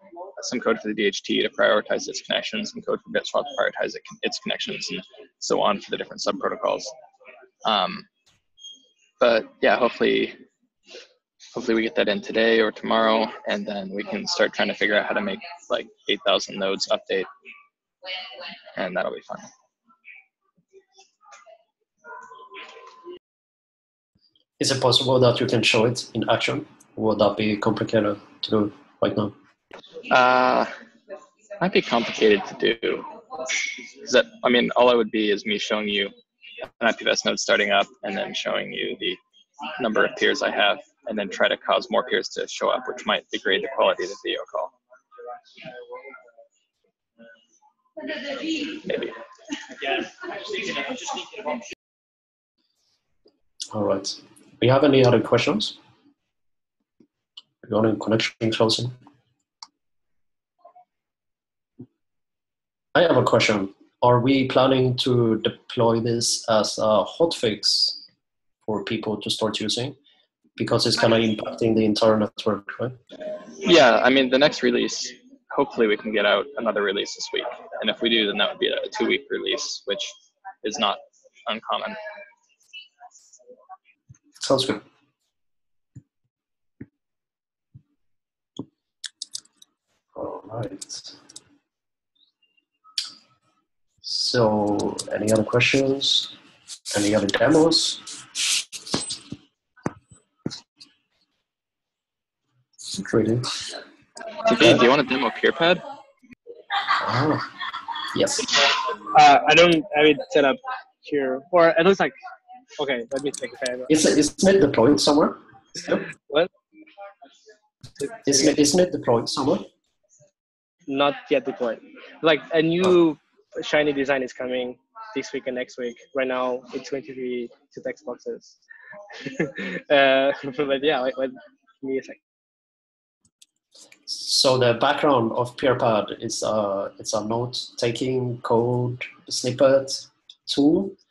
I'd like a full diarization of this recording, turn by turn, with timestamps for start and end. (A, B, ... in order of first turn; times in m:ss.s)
0:00.4-0:06.9 A
0:07.6-0:08.1 A
0:09.2-0:10.4 A
0:11.5-0:17.3 A
0:18.8-0:19.5 A
0:24.6-0:29.3 B
0:30.1-0:30.7 A
0:31.6-0:33.1 A
0:34.0-0:36.2 A
0:36.8-0:39.2 A
0:39.8-0:44.7 A
0:48.8-0:49.1 A
0:53.7-0:55.8 B
0:57.6-0:58.9 B
1:02.9-1:08.0 B
1:08.7-1:10.0 B
1:10.6-1:13.0 B
1:13.6-1:22.0 A
1:24.4-1:24.8 B
1:30.2-1:31.2 B
1:34.0-1:36.3 B
1:36.9-1:38.0 B
1:42.9-1:43.5 B
1:44.4-1:45.8 A
1:47.0-1:47.5 B
1:48.1-1:48.4 B
1:49.1-1:52.2 C
1:52.8-1:53.9 C
1:53.9-1:56.0 B
1:56.1-1:56.5 C
1:58.0-1:58.5 C
1:58.2-1:59.7 B
2:00.9-2:08.6 C
2:09.2-2:12.2 C
2:14.1-2:21.0 B